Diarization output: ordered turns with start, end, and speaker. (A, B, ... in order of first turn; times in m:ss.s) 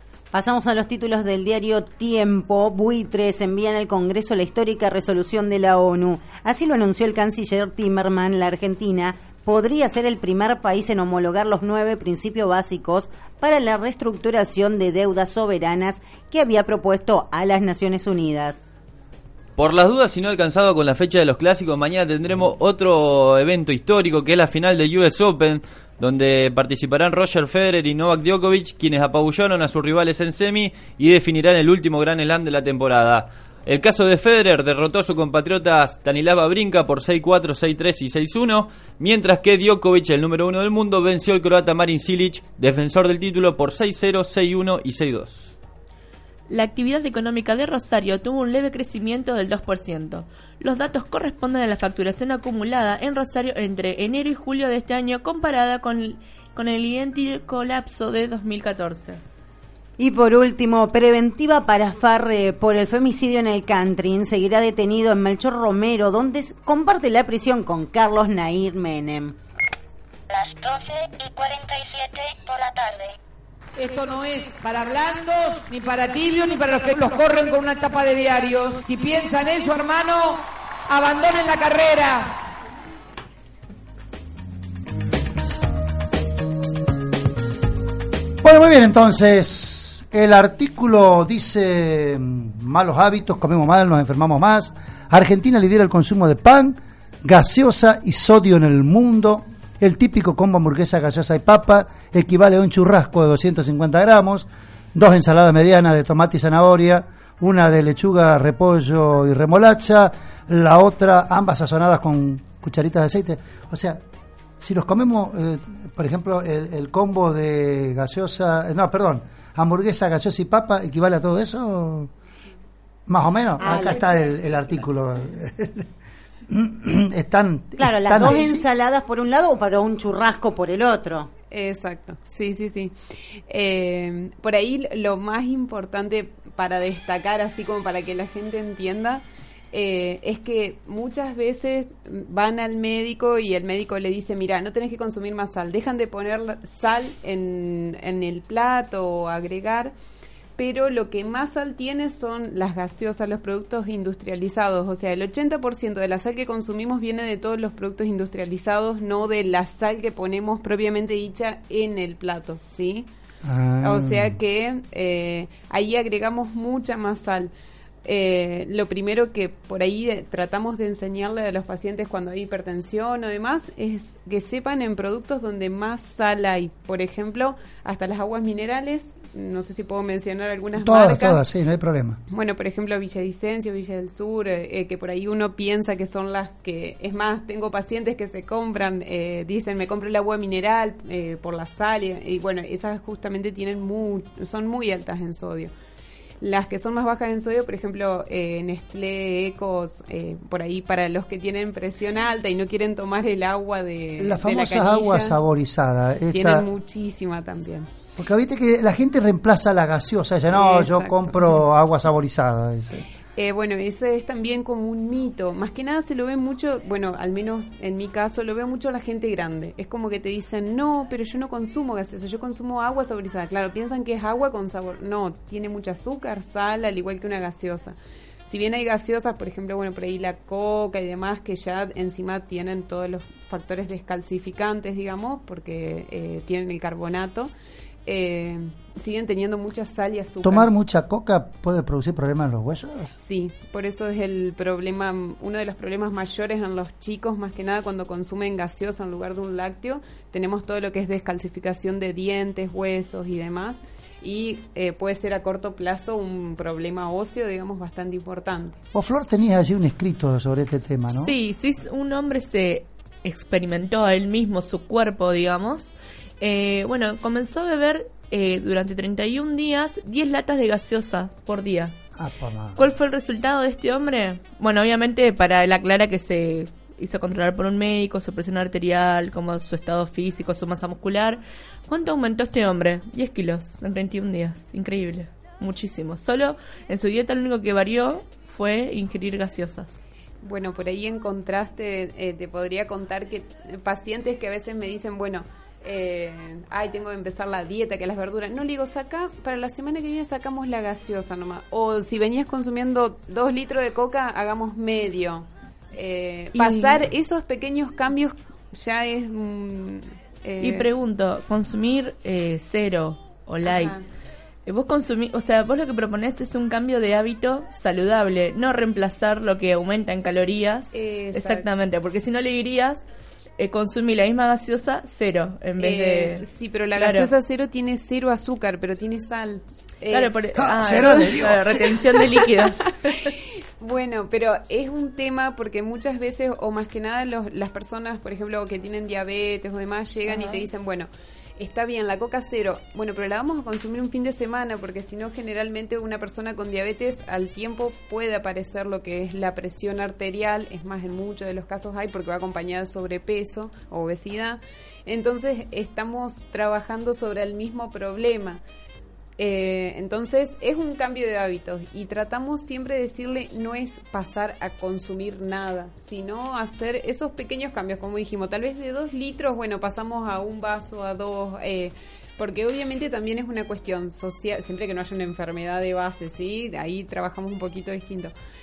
0:00.3-0:18.6 A
0:19.6-0:45.5 B
0:46.5-0:59.2 C
1:00.0-1:09.4 A
1:10.3-1:13.2 D
1:13.8-1:22.3 E
1:28.4-1:54.0 F
1:54.6-2:02.1 F
2:03.1-2:05.9 F
2:03.6-2:04.3 A
2:03.7-2:04.0 G
2:06.5-2:08.7 F
2:07.8-2:11.3 A
2:11.5-2:13.0 G
2:13.5-2:29.9 G
2:30.6-2:43.1 G
2:43.4-2:44.3 F
2:43.8-2:47.5 G
2:48.0-3:01.4 G
3:00.7-3:02.2 F
3:02.3-3:15.7 G
3:16.4-3:25.4 G
3:24.2-3:26.6 F
3:26.3-3:27.9 G
3:28.2-3:33.1 F
3:30.5-3:31.6 G
3:33.4-3:48.0 G
3:48.5-3:57.5 G
3:58.1-4:00.7 G
4:00.4-4:03.1 F
4:03.2-4:18.8 G
4:18.9-4:21.4 F
4:21.1-4:31.9 C
4:32.2-4:32.8 F
4:32.8-4:50.0 C
4:50.4-5:10.9 G
5:06.5-5:07.0 C
5:10.6-5:14.0 C
5:13.6-5:14.0 G
5:14.7-5:23.0 C
5:20.9-5:21.7 G
5:23.6-5:26.4 C
5:25.8-5:30.4 G
5:27.0-5:27.3 C
5:30.1-5:33.3 C
5:30.5-5:32.2 F
5:33.3-5:58.6 G
5:40.3-5:40.6 C
5:59.4-6:18.3 G